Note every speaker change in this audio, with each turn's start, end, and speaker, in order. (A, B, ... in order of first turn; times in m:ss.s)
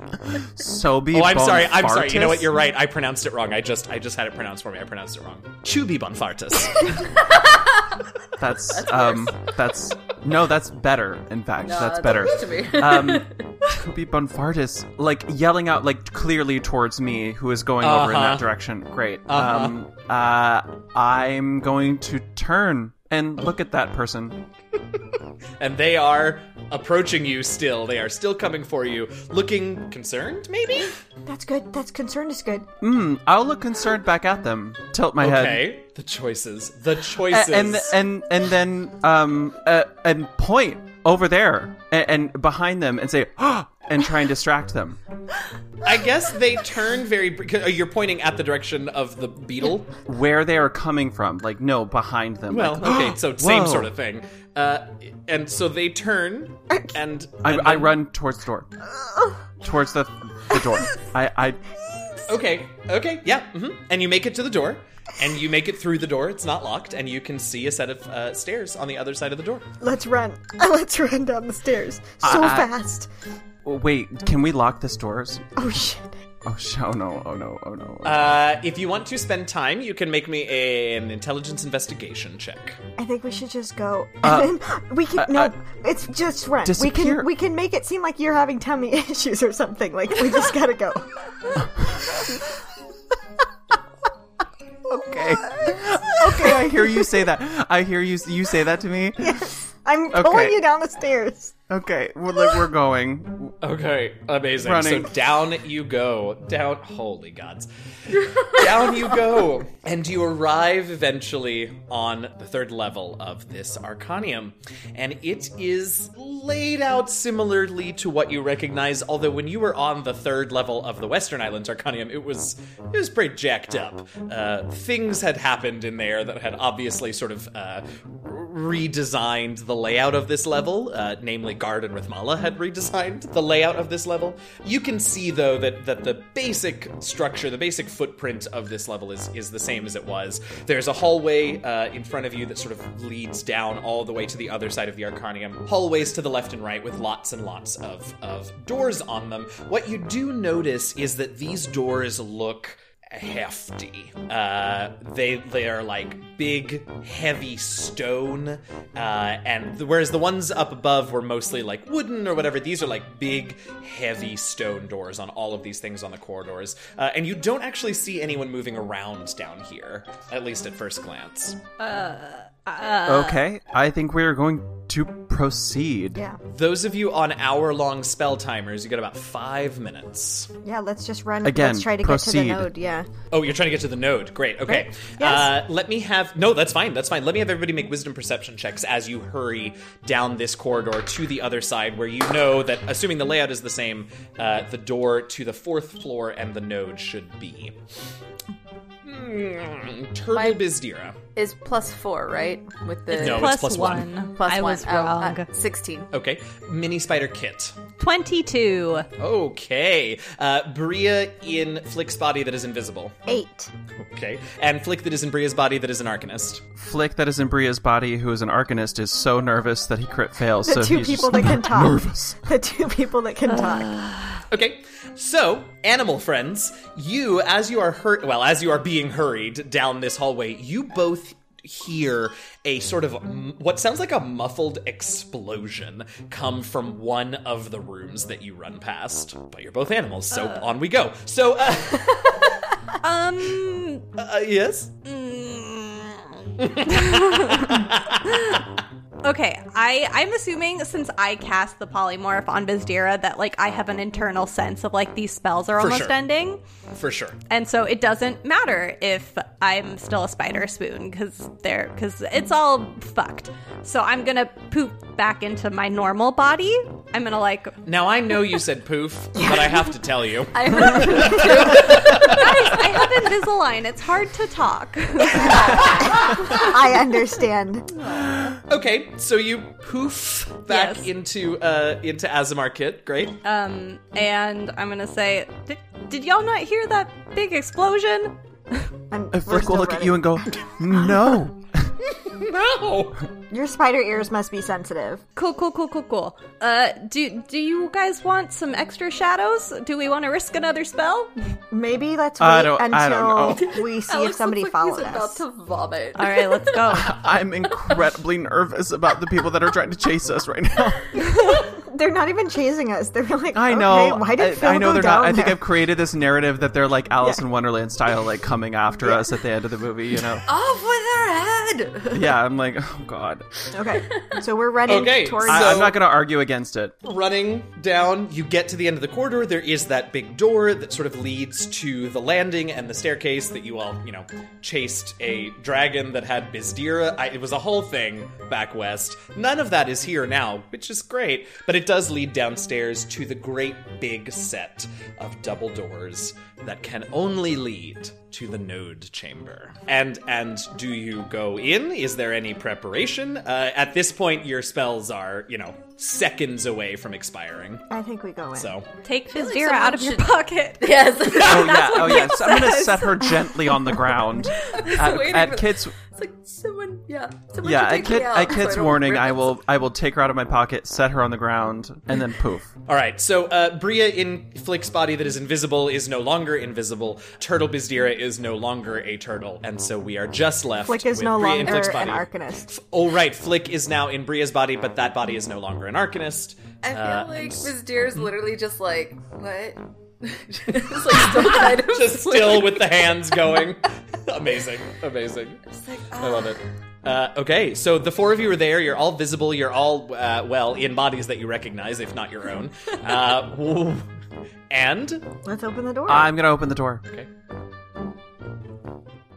0:00.2-0:02.6 A
0:01.1-0:07.2 B
0:07.2-0:07.7 C
0:08.4-0:24.4 A
0:08.7-0:09.3 C
0:11.6-0:13.5 C
0:17.8-0:18.5 B
0:19.3-0:19.8 B
0:25.6-0:30.9 B
0:31.2-0:32.7 D
0:32.8-0:35.7 A
0:35.2-0:37.9 B
0:37.2-0:45.0 A
0:45.8-0:50.0 B
0:50.0-0:53.9 A
0:52.5-0:58.0 B
0:57.4-0:58.7 A
0:59.6-1:01.6 A
1:02.2-1:09.7 B
1:09.8-1:13.1 D
1:12.2-1:12.7 A
1:13.6-1:15.4 A
1:15.6-1:16.2 D
1:16.4-1:18.4 A
1:18.0-1:22.8 B
1:23.0-1:31.1 D
1:24.2-1:24.6 A
1:25.1-1:25.5 A
1:26.6-1:27.3 A
1:34.9-1:39.4 A
1:35.6-1:37.1 D
1:39.2-1:41.5 D
1:40.1-1:40.6 A
1:41.7-1:43.6 A
1:43.6-2:51.6 B
1:44.6-1:45.1 A
2:51.8-2:53.4 E
2:53.0-2:56.2 A
2:56.5-3:00.5 B
3:00.6-3:03.1 D
3:01.4-3:02.7 A
3:03.3-3:17.8 B
3:04.7-3:05.5 D
3:19.0-3:21.2 B
3:20.3-3:20.6 C
3:21.3-3:23.6 C
3:23.1-3:24.1 B
3:23.1-3:25.5 E
3:24.3-3:26.1 C
3:26.1-3:27.8 B
3:28.0-3:29.1 E
3:29.2-3:33.2 B
3:33.2-3:33.7 D
3:34.0-3:36.6 B
3:36.8-3:42.4 A
3:40.6-3:43.9 D
3:43.7-3:44.4 E
3:44.5-4:02.8 B
4:00.3-4:00.7 E
4:03.0-4:04.0 E
4:04.2-4:04.9 B
4:05.0-4:08.6 E
4:06.6-4:08.6 B
4:09.2-4:16.6 E
4:15.7-4:16.2 B
4:16.9-4:17.4 B
4:17.5-4:27.8 E
4:27.8-4:33.0 B
4:30.5-4:32.4 C
4:31.8-4:36.7 E
4:35.4-4:36.3 C
4:36.0-4:37.9 D
4:38.0-4:38.4 C
4:38.6-4:43.4 B
4:40.7-4:41.1 E
4:43.4-4:48.9 E
4:49.1-4:50.6 D
4:49.3-4:51.9 A
4:52.1-4:53.2 B
4:53.5-4:55.2 D
4:55.4-5:01.3 E
5:01.7-5:05.4 D
5:02.4-5:03.7 A
5:03.5-5:06.9 C
5:06.2-5:07.2 E
5:06.9-5:11.1 A
5:11.2-5:15.6 D
5:13.5-5:20.4 A
5:19.0-5:19.3 D
5:20.4-5:22.3 C
5:22.1-5:23.4 A
5:23.7-5:25.9 D
5:24.9-5:26.0 B
5:25.4-5:27.0 A
5:27.0-5:57.9 B
5:57.9-5:58.7 D
5:58.5-5:58.9 B
5:59.0-6:04.9 E
5:59.3-6:02.5 C
6:01.4-6:06.0 A
6:04.7-6:09.5 C
6:07.6-6:12.7 A
6:12.8-6:28.2 B
6:20.8-6:22.7 D
6:26.8-6:33.1 C
6:31.3-6:35.7 B
6:35.7-6:36.6 C
6:36.2-6:44.1 B
6:44.7-6:45.3 B
6:45.4-6:46.3 D
6:46.1-6:47.0 A